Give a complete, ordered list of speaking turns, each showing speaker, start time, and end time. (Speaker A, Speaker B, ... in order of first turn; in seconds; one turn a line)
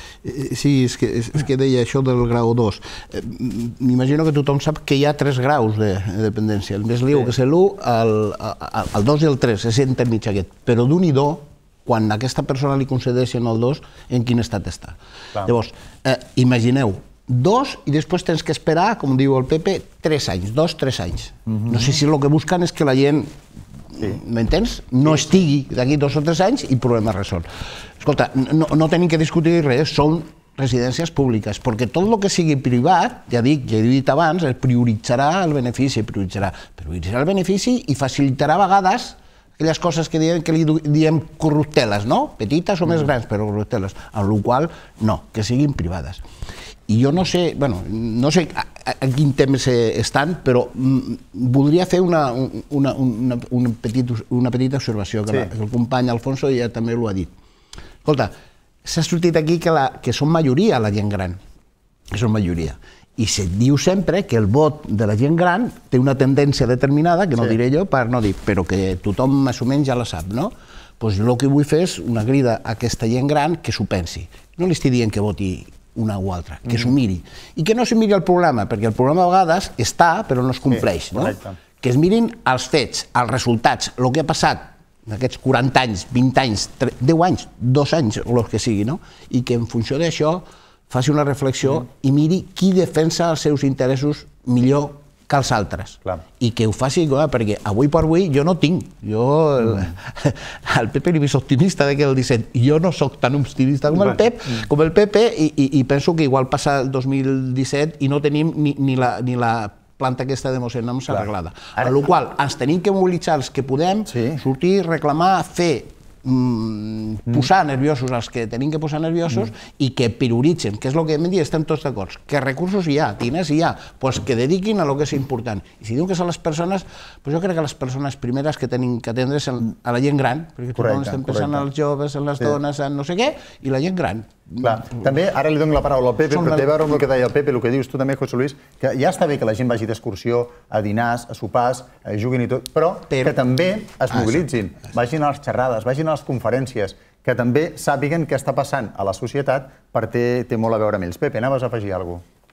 Speaker A: 0.2-23.3
Speaker B: 21.5-21.9
Speaker A: 23.9-27.5
Speaker B: 25.1-25.4
Speaker A: 28.0-46.2
Speaker A: 46.9-57.3
Speaker A: 58.0-58.3
Speaker A: 58.8-61.4
Speaker A: 62.1-134.9
Speaker B: 80.7-81.6
Speaker B: 99.6-99.9
Speaker B: 111.1-112.0
Speaker B: 114.1-114.4
Speaker B: 130.7-131.6
Speaker B: 134.6-152.2
Speaker A: 136.3-136.8
Speaker A: 143.1-143.3
Speaker A: 144.2-144.4